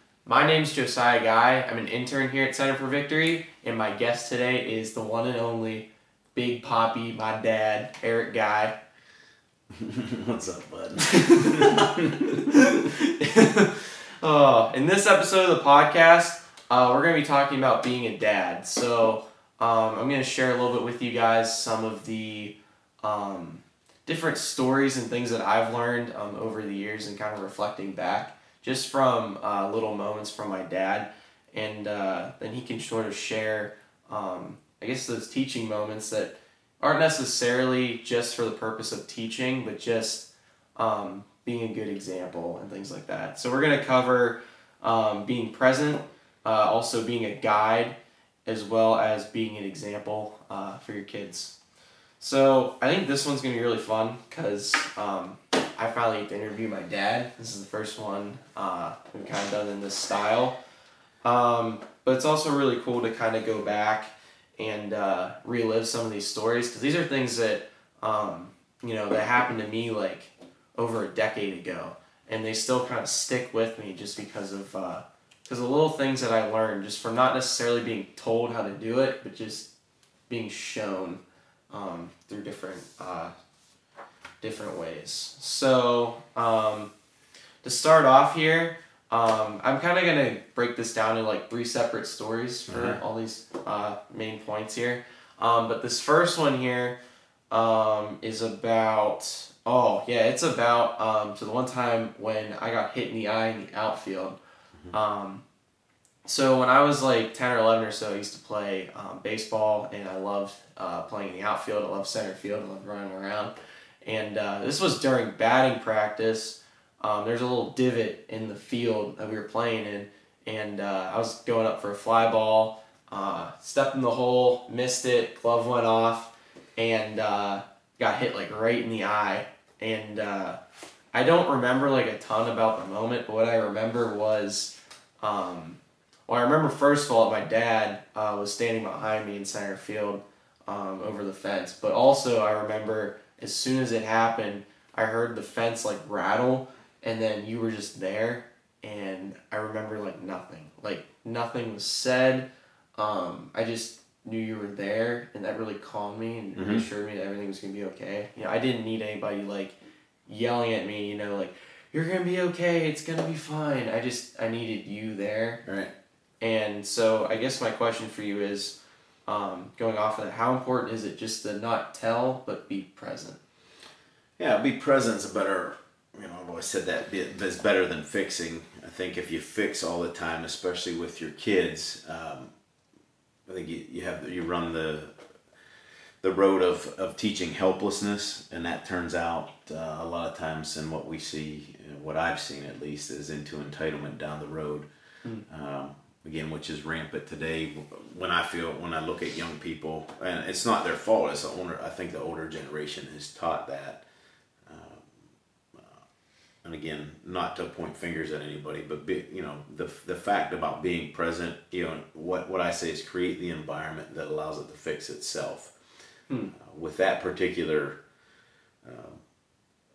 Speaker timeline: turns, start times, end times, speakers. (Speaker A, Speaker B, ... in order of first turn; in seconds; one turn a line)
Speaker A: 0.3-8.8
Speaker B: 9.7-12.3
Speaker A: 11.0-48.0
Speaker A: 48.5-51.5
Speaker A: 52.2-60.5
Speaker A: 61.2-79.7
Speaker A: 80.3-83.3
Speaker A: 84.4-86.9
Speaker A: 87.6-97.0
Speaker B: 92.7-93.0
Speaker A: 97.5-104.4
Speaker A: 104.9-105.4
Speaker A: 106.2-130.6
Speaker A: 131.1-159.8
Speaker B: 156.6-156.9
Speaker A: 160.3-165.6
Speaker B: 165.7-165.9
Speaker A: 166.4-168.8
Speaker A: 169.3-173.4
Speaker B: 174.4-182.5
Speaker B: 183.5-185.2
Speaker B: 186.2-194.9
Speaker B: 195.5-204.0
Speaker B: 204.7-205.2
Speaker B: 205.7-206.0
Speaker B: 206.6-215.7
Speaker A: 216.3-216.5
Speaker B: 216.6-218.0
Speaker B: 218.8-219.2